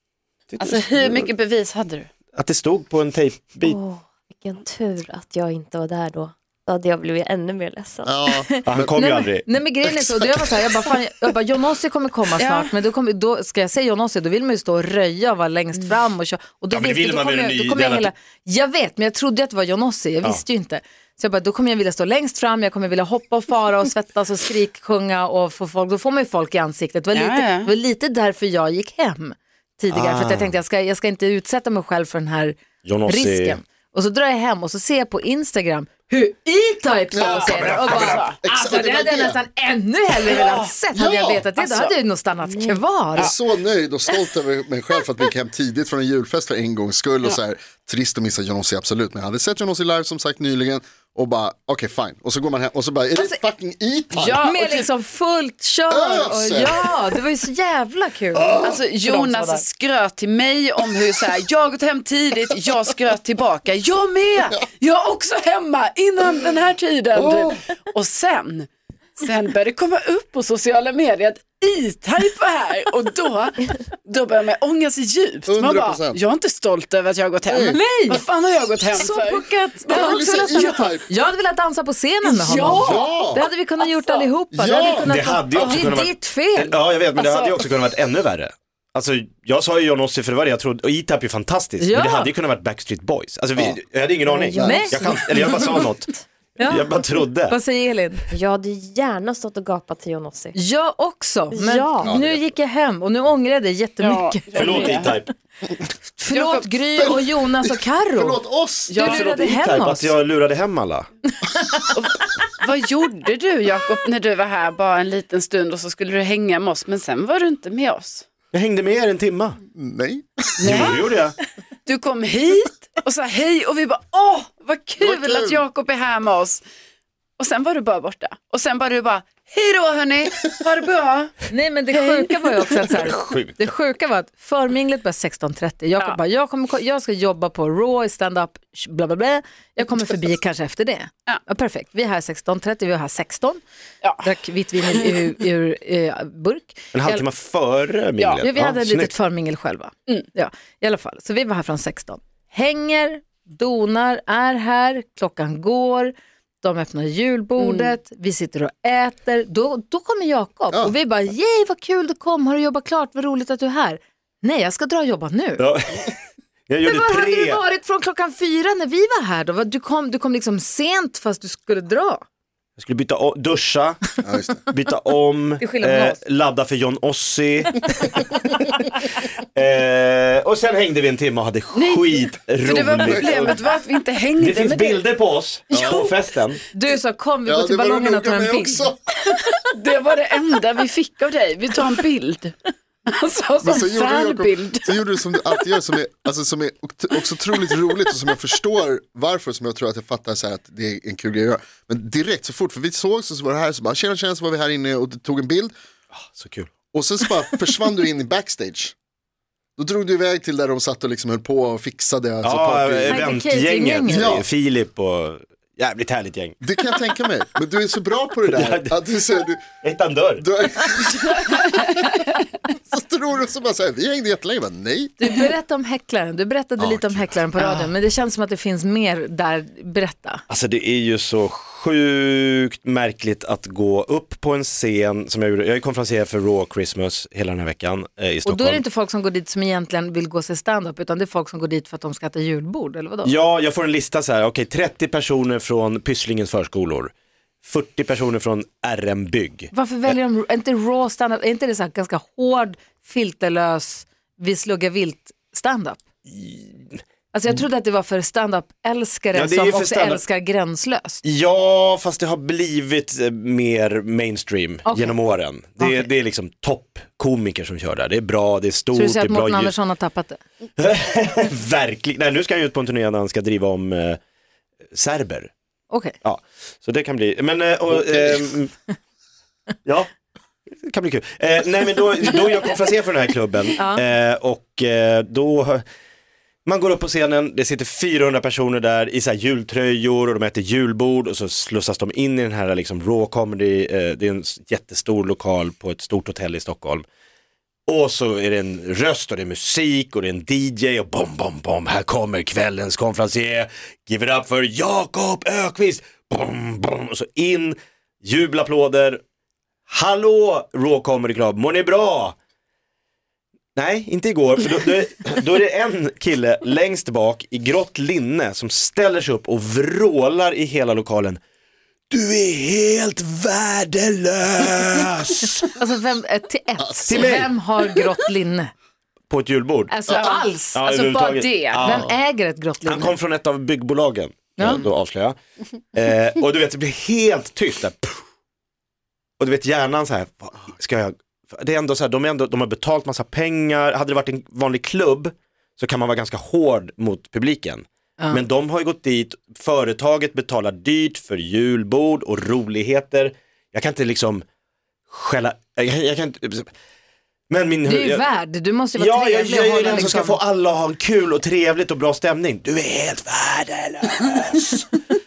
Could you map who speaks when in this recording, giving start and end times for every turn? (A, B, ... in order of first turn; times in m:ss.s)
0:00.5-0:01.3 A
0:00.6-0:02.1 B
0:02.3-0:03.8 A
0:03.6-0:08.1 C
0:08.0-0:08.9 D
0:08.3-0:43.3 E
0:08.6-0:09.4 A
0:09.9-0:10.8 D
0:12.4-0:12.7 B
0:16.7-0:18.1 A
0:27.1-0:27.7 B
0:29.9-0:30.5 A
0:32.8-0:33.6 A
0:37.1-0:39.4 D
0:37.2-0:38.3 B
0:40.2-0:40.7 B
0:40.9-0:41.5 D
0:41.5-0:41.9 B
0:42.4-0:42.8 C
0:43.2-0:54.5 D
0:44.1-0:44.3 B
0:53.1-0:53.4 E
0:54.1-0:54.9 B
0:54.4-0:59.6 E
0:55.9-0:57.2 D
0:58.3-0:58.8 D
0:58.6-1:20.9 B
1:07.2-1:07.6 D
1:15.5-1:16.2 D
1:17.5-1:17.8 D
1:17.5-1:18.2 E
1:18.9-1:26.8 E
1:19.9-1:21.1 D
1:22.2-1:24.3 B
1:22.6-1:23.4 D
1:24.5-1:25.1 D
1:25.0-1:37.6 A
1:27.1-1:27.7 B
1:31.8-1:32.3 E
1:34.2-1:35.8 C
1:34.5-1:35.1 D
1:34.6-1:35.0 E
1:36.6-1:38.2 E
1:38.3-1:40.6 C
1:40.5-1:45.2 E
1:41.5-1:42.2 C
1:42.0-1:42.5 D
1:44.0-1:45.1 B
1:44.6-1:45.3 A
1:45.8-1:48.4 E
1:46.3-1:46.7 B
1:47.0-1:49.0 D
1:48.9-1:49.3 B
1:48.9-1:50.2 E
1:49.0-1:51.1 A
1:51.4-1:51.8 E
1:51.9-1:58.2 B
1:58.5-1:59.6 A
1:59.7-2:00.8 D
2:00.6-2:01.0 B
2:00.6-2:01.3 A
2:01.8-2:06.6 B
2:05.0-2:05.6 D
2:07.4-2:12.9 B
2:11.4-2:23.6 E
2:13.0-2:13.6 A
2:24.0-2:25.2 B
2:24.2-2:27.3 E
2:26.9-2:29.1 A
2:28.2-2:28.4 B
2:28.4-2:45.6 E
2:37.6-2:38.0 B
2:45.6-2:46.2 A
2:46.7-2:47.6 A
2:46.8-2:52.2 E
2:52.8-2:58.4 A
2:54.2-2:54.6 D
2:55.6-2:56.2 E
2:59.5-3:03.6 A
3:01.7-3:02.1 B
3:02.6-3:05.0 B
3:03.1-3:03.5 D
3:04.4-3:06.6 A
3:05.7-3:06.1 D
3:06.7-3:08.9 E
3:07.4-3:09.0 D
3:09.4-3:15.2 B
3:13.6-3:25.7 D
3:26.1-3:26.7 A
3:26.9-3:28.9 D
3:29.8-3:33.2 D
3:32.4-3:36.6 A
3:33.1-3:34.3 E
3:34.1-3:34.5 D
3:36.6-3:39.7 D
3:38.5-3:39.0 A
3:39.8-3:40.4 A
3:40.4-3:41.9 D
3:42.9-3:45.1 D
3:45.2-3:50.4 E
3:46.8-3:47.4 D
3:47.6-3:47.9 B
3:50.5-3:58.8 A
3:58.4-4:03.3 E
4:03.2-4:07.1 A
4:07.6-4:09.7 A
4:09.7-4:16.0 E
4:16.3-4:17.0 A
4:17.3-4:21.2 E
4:19.3-4:20.2 A
4:21.2-4:29.7 A
4:24.8-4:25.2 E
4:25.8-4:26.1 E
4:28.9-4:30.4 E
4:30.8-4:34.2 A
4:34.9-4:35.5 A
4:35.9-4:36.2 E
4:36.2-4:38.7 A
4:40.8-4:45.8 A
4:43.8-4:44.0 E
4:46.6-4:57.0 A
4:57.9-5:09.2 A
5:09.9-5:12.4 A
5:13.7-5:21.4 A
5:22.1-5:25.7 A
5:25.7-5:28.7 E
5:26.8-5:27.3 D
5:27.0-5:27.5 A
5:29.3-5:30.0 A
5:29.9-5:30.8 E
5:30.1-5:31.8 B
5:30.7-5:32.1 A
5:31.8-5:33.2 E
5:32.8-5:35.4 A
5:34.6-5:34.8 E
5:35.9-5:38.2 A
5:39.4-5:54.4 A
5:48.2-5:48.4 E
5:55.1-5:56.7 A
5:57.5-5:58.2 A
5:57.8-6:00.4 E
5:58.9-6:04.9 A